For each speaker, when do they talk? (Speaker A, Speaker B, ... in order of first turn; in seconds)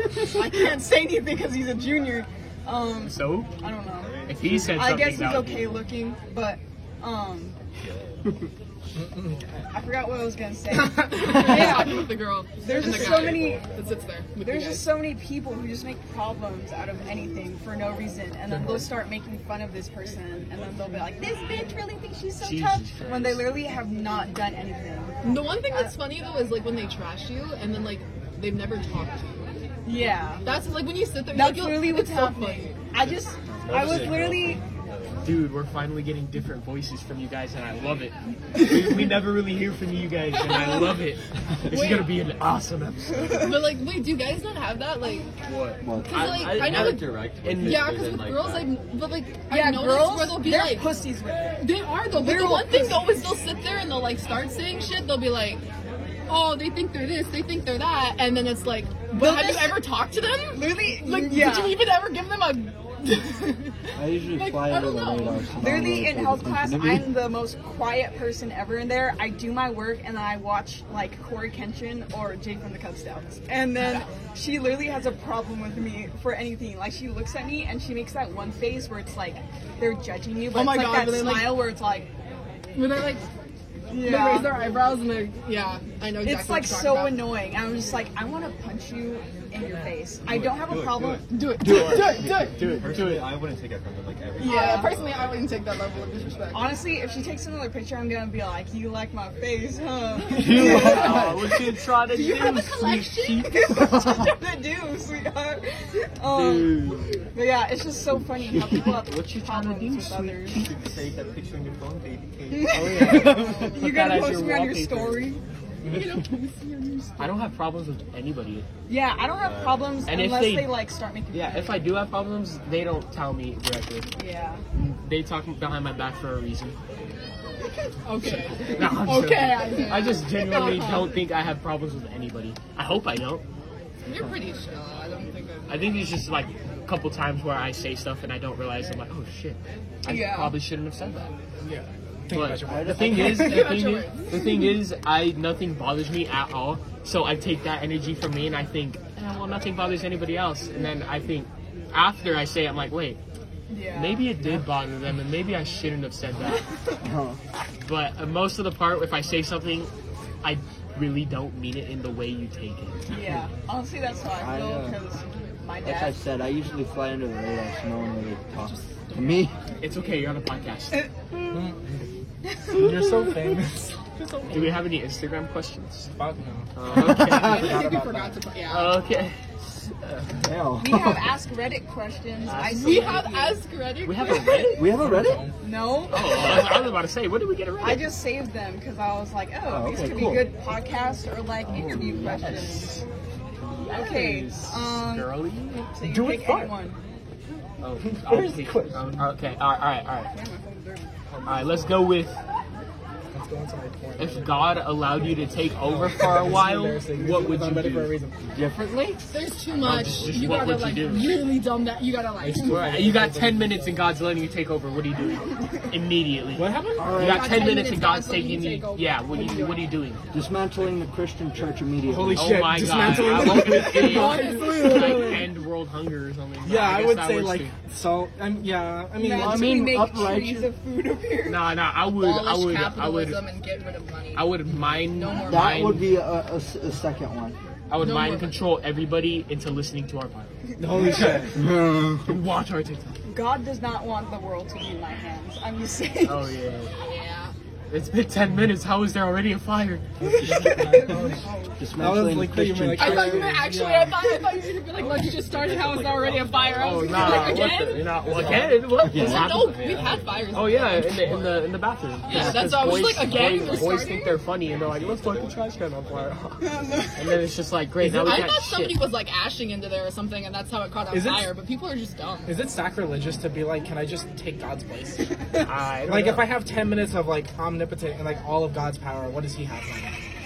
Speaker A: 0.1-7.6, 9.7-13.7, 14.4-25.9, 29.9-30.5, 31.3-34.6, 49.5-53.2, 59.1-59.9, 60.5-61.9, 65.6-82.1, 83.9-84.7, 86.2-91.3, 94.4-95.0, 96.5-101.4, 103.5-110.6, 112.6-115.4, 118.9-121.9, 124.2-124.6, 128.6-131.2, 140.1-140.6, 153.7-154.3, 163.1-166.2, 171.0-171.6, 172.5-173.1, 180.8-183.6, 185.6-186.7, 187.8-193.0, 193.9-195.3, 195.9-197.0, 200.3-201.1, 224.1-225.3, 229.2-231.8, 240.7-241.4, 243.3-246.6, 250.2-251.8, 256.8-258.1, 266.6-267.4
Speaker B: 3.0-3.5, 4.3-5.8, 18.5-18.9, 22.4-23.5, 35.2-43.5, 45.4-48.0, 91.6-93.4, 100.5-103.5, 106.3-106.9, 108.8-110.8, 112.7-115.4, 117.2-118.7, 120.1-120.8, 121.3-124.1, 124.7-126.8, 128.2-133.4, 135.7-141.3, 142.3-153.2, 153.9-156.7, 157.8-159.9, 160.4-163.2, 169.8-171.1, 174.5-176.1, 176.8-177.9, 178.7-180.4, 182.5-183.5, 184.0-184.9, 186.1-188.1, 191.7-193.0, 193.6-195.9, 197.8-200.3, 201.4-202.4, 204.2-208.2, 209.8-211.4, 212.7-220.2, 222.3-227.7, 231.4-233.4, 234.3-236.1, 237.9-240.6, 242.3-243.2, 246.2-246.9, 247.9-250.1, 256.8-259.9, 260.5-269.0, 275.6-276.6
Speaker C: 3.9-5.2, 7.8-8.3, 12.8-13.9, 33.6-35.4, 46.1-48.7, 90.2-91.2, 92.0-96.5, 110.6-113.2, 119.4-120.1, 201.3-202.1, 209.8-210.6, 254.9-261.7, 263.3-266.4
Speaker D: 8.9-9.7, 115.8-116.2, 141.6-143.8, 171.5-172.1, 172.7-174.0, 176.1-178.4, 184.9-185.6, 196.0-196.7, 198.1-199.3, 203.3-208.4, 212.4-214.1, 216.6-217.2, 222.1-224.7, 226.6-229.8, 240.8-241.7, 250.2-251.4, 252.0-254.3, 268.0-268.5, 271.1-271.5, 272.5-280.1
Speaker E: 10.7-14.9, 25.2-29.5, 30.4-32.8, 40.4-41.0, 41.7-42.2, 43.3-45.3, 46.0-51.0, 51.6-55.6, 56.3-65.8, 73.8-74.1, 80.5-81.7, 82.7-83.2, 83.9-87.3, 91.2-92.8, 94.4-96.8, 100.3-101.4, 102.1-104.3, 113.3-113.7, 115.9-117.5, 128.0-131.2, 134.1-136.1, 143.2-144.6, 174.2-174.6, 177.3-179.0, 182.8-184.9, 209.3-213.1, 217.2-219.8, 223.9-225.2, 232.0-234.5, 235.0-236.0, 238.0-238.6, 247.0-247.5, 252.9-258.0, 259.0-261.2, 262.3-264.4, 268.2-272.5
Speaker F: 45.8-46.4, 64.0-67.2, 91.6-92.0, 100.3-101.4, 142.6-143.6, 157.0-157.4, 164.3-165.0, 165.8-169.5, 177.0-177.7, 180.4-181.3, 184.8-185.5, 189.7-190.5, 191.7-192.6, 208.5-209.2, 217.0-217.6, 220.3-222.6, 224.2-225.3, 229.2-230.7, 235.5-237.6, 241.1-242.3, 250.4-253.6